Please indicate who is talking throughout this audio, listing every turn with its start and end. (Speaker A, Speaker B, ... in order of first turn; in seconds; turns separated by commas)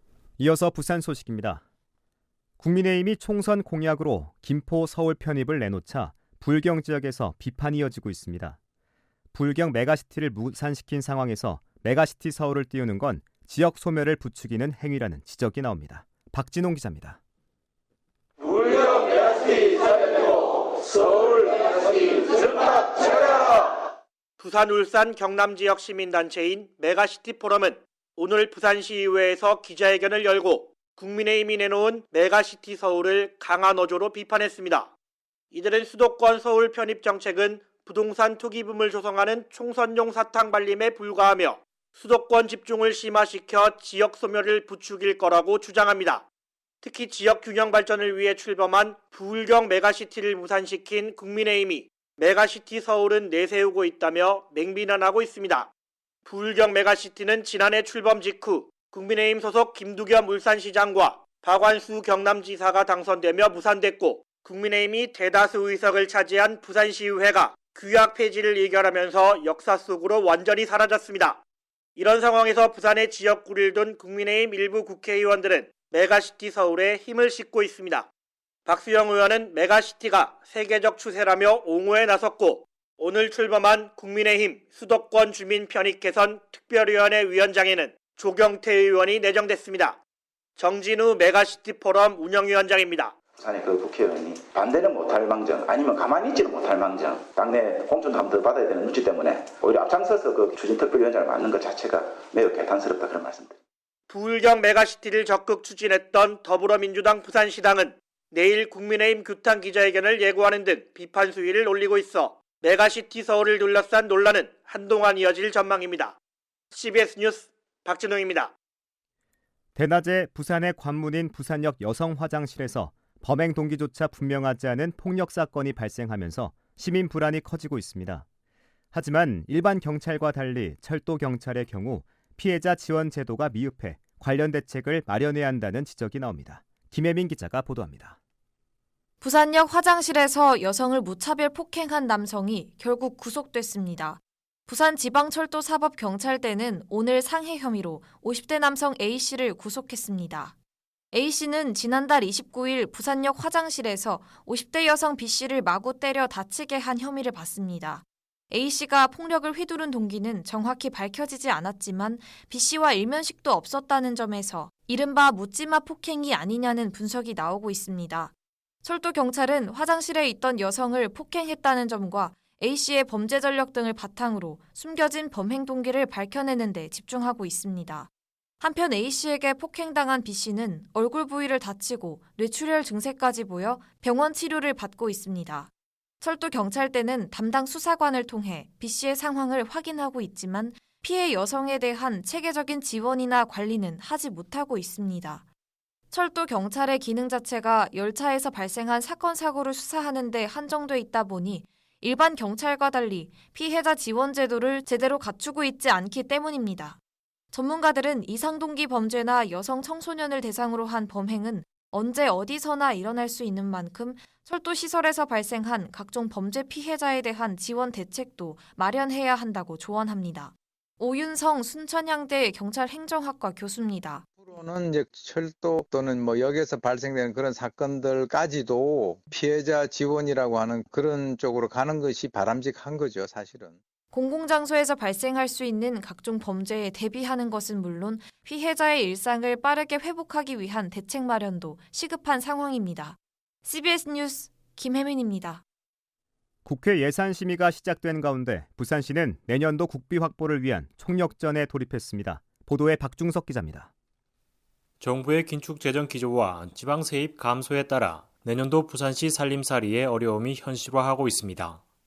Speaker A: 0.4-1.6, Speaker A: 2.6-8.6, Speaker A: 9.3-17.2, Speaker B: 24.4-34.9, Speaker B: 35.5-46.2, Speaker B: 46.8-55.7, Speaker B: 56.3-71.4, Speaker B: 72.0-78.1, Speaker B: 78.7-90.0, Speaker B: 90.6-93.1, Speaker C: 93.4-103.6, Speaker B: 104.1-116.2, Speaker B: 116.7-118.5, Speaker A: 119.8-128.3, Speaker A: 128.9-138.2, Speaker D: 139.2-150.6, Speaker D: 151.1-168.3, Speaker D: 168.8-178.1, Speaker D: 178.6-195.4, Speaker D: 196.1-207.0, Speaker D: 207.5-224.3, Speaker E: 227.2-228.5, Speaker E: 231.2-233.7, Speaker D: 234.1-245.6, Speaker A: 246.7-253.9, Speaker F: 255.0-261.8